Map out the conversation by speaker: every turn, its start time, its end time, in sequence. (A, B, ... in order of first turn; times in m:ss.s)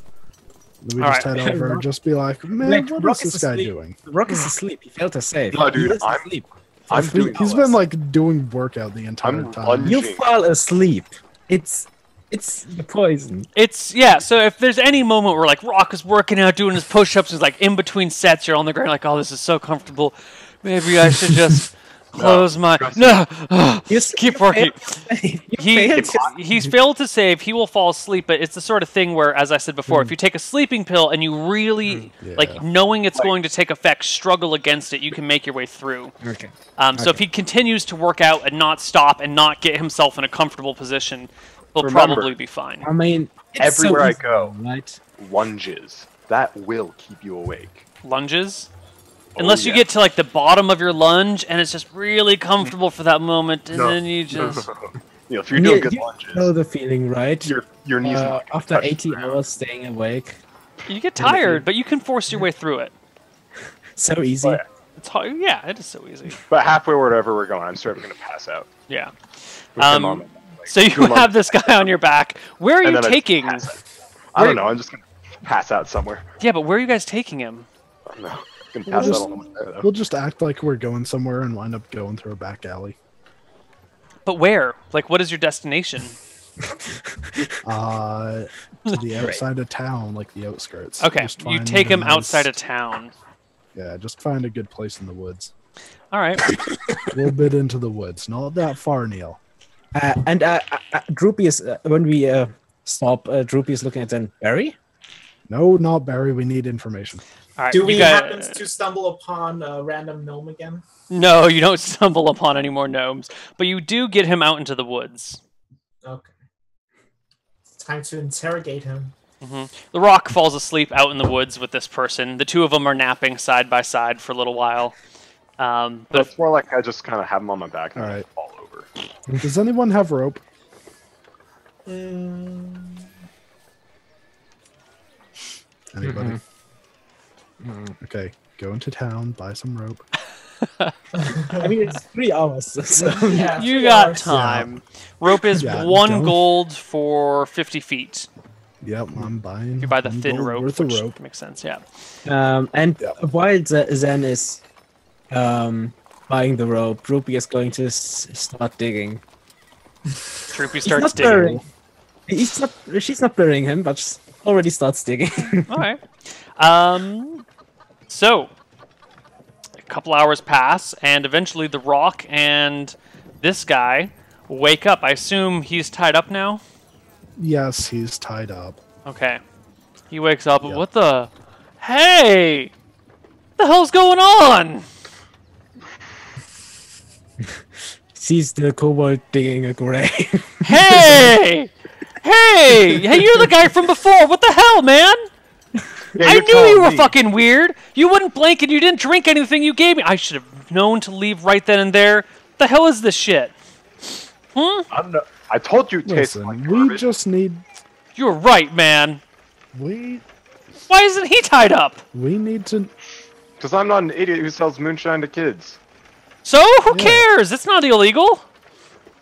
0:00.8-0:04.0 A
0:01.0-0:01.3 B
0:01.3-0:01.8 C
0:02.6-0:07.4 C
0:05.5-0:06.3 D
0:06.9-0:07.8 D
0:07.4-0:09.9 A
0:09.2-0:10.2 D
0:09.8-0:13.5 C
0:13.5-0:25.0 B
0:22.2-0:23.2 D
0:23.9-0:26.7 C
0:25.6-0:36.1 B
0:29.9-0:30.1 C
0:32.2-0:32.6 A
0:36.2-0:36.5 C
0:36.8-0:42.9 B
0:41.8-0:42.2 D
0:41.8-0:42.3 C
0:42.8-0:45.0 C
0:43.6-0:44.5 D
0:45.2-0:47.8 D
0:48.0-0:48.7 B
0:49.3-0:49.8 D
0:49.4-0:54.6 B
0:53.7-0:56.5 D
0:54.3-0:54.6 C
0:55.5-1:00.4 C
0:57.4-0:59.4 D
1:00.9-1:02.9 B
1:01.2-1:01.6 C
1:03.9-1:04.6 C
1:05.0-1:06.4 B
1:06.5-1:08.7 D
1:08.9-1:13.7 B
1:09.8-1:11.5 D
1:12.8-1:13.8 D
1:14.3-1:16.2 D
1:14.4-1:14.6 B
1:16.4-1:17.7 B
1:18.1-1:19.9 D
1:19.0-1:19.2 A
1:19.8-1:23.0 A
1:24.2-1:26.2 B
1:26.6-1:27.5 C
1:27.6-1:32.5 A
1:29.2-1:29.4 C
1:31.0-1:33.1 B
1:33.7-1:35.5 A
1:36.1-1:36.5 B
1:36.5-1:37.2 C
1:37.1-1:39.4 A
1:39.9-1:44.8 C
1:45.5-1:47.2 A
1:47.6-1:48.6 B
1:47.7-1:50.8 E
1:51.1-1:55.4 B
1:56.0-1:56.3 E
1:57.7-1:59.1 E
1:59.4-2:05.0 B
2:05.6-2:06.3 B
2:06.1-2:08.9 D
2:08.0-2:08.2 A
2:09.4-2:10.4 A
2:11.8-2:13.0 E
2:15.9-2:16.4 A
2:16.0-2:16.4 C
2:17.6-2:18.0 C
2:18.0-2:20.0 A
2:20.6-2:20.9 B
2:21.2-2:21.7 E
2:21.5-2:23.6 C
2:23.2-2:24.3 E
2:23.5-2:28.3 B
2:24.2-2:24.7 A
2:25.6-2:26.4 A
2:28.8-2:31.2 A
2:29.8-2:31.8 B
2:32.2-2:34.6 C
2:35.3-2:39.2 C
2:40.5-2:41.6 B
2:40.8-2:41.6 C
2:42.3-2:45.8 C
2:45.4-2:47.4 B
2:48.1-2:48.5 B
2:49.8-2:56.6 B
2:57.4-2:58.8 A
2:59.0-2:59.4 B
3:00.1-3:02.7 B
3:03.6-3:04.8 B
3:08.1-3:11.3 C
3:10.6-3:15.2 B
3:12.9-3:13.5 C
3:16.2-3:17.1 D
3:16.2-3:23.5 B
3:24.5-3:24.9 B
3:24.9-3:27.0 D
3:26.0-3:27.6 A
3:28.2-3:29.2 B
3:29.7-3:30.2 A
3:30.9-3:32.0 B
3:32.1-3:32.9 A
3:33.6-3:35.8 D
3:36.4-3:38.4 B
3:36.9-3:37.3 A